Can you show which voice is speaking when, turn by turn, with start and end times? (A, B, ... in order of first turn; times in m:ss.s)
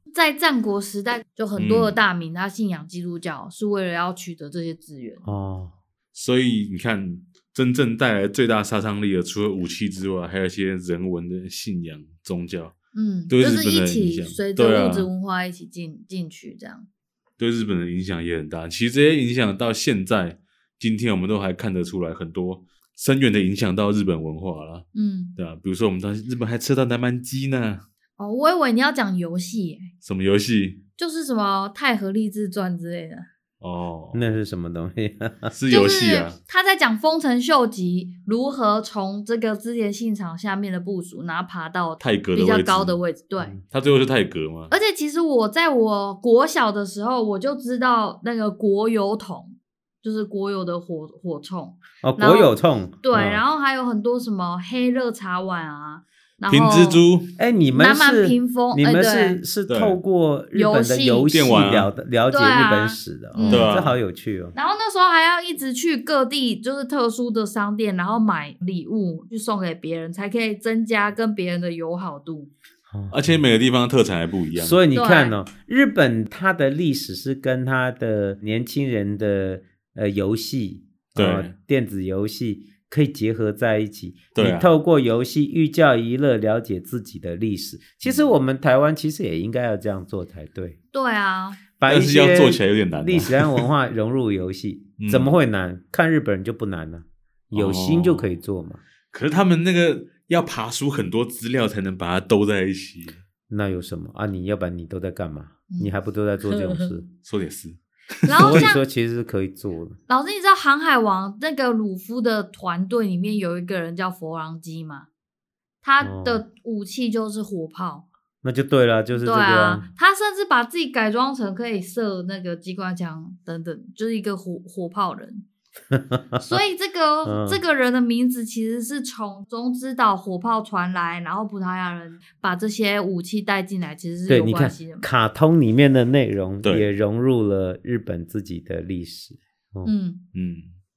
0:00.1-0:05.3 A
0:01.6-0:02.0 B
0:05.2-0:05.7 C
0:06.1-0:12.7 B
0:12.9-0:16.9 A
0:13.3-0:15.1 B
0:17.4-0:24.8 B
0:24.9-0:25.4 A
0:25.4-0:27.8 B
0:28.2-0:29.9 A
0:30.0-0:30.8 B
0:31.0-0:33.3 A
0:33.6-0:34.2 B
0:34.1-0:35.5 C
0:35.5-0:36.4 B
0:35.7-0:43.6 A
0:42.0-0:43.0 B
0:43.7-0:44.7 B
0:44.7-0:57.0 A
0:52.0-0:53.4 C
0:56.5-0:57.3 B
0:57.4-1:04.5 C
0:57.7-0:59.4 A
0:59.7-1:00.0 B
1:00.5-1:01.4 A
1:01.3-1:01.9 B
1:02.3-1:03.7 A
1:03.4-1:04.0 B
1:04.5-1:12.5 A
1:12.9-1:13.2 C
1:13.1-1:14.8 B
1:14.6-1:30.8 C
1:14.9-1:15.3 A
1:21.2-1:21.5 B
1:24.3-1:24.7 B
1:28.0-1:28.3 B
1:30.9-1:31.6 A
1:31.8-1:38.8 C
1:31.9-1:33.7 B
1:35.0-1:35.3 B
1:37.5-1:38.3 B
1:39.1-1:43.2 B
1:43.5-1:47.1 C
1:45.7-1:46.9 A
1:47.2-1:48.7 B
1:48.2-1:48.8 A
1:48.3-1:50.0 C
1:50.1-1:55.1 A
1:55.8-1:58.0 A
1:56.0-1:56.4 C
1:58.4-1:59.9 C
1:59.1-2:05.4 A
2:05.9-2:06.6 C
2:06.4-2:15.0 A
2:07.2-2:07.6 C
2:14.3-2:19.9 C
2:19.8-2:20.2 A
2:20.3-2:20.7 B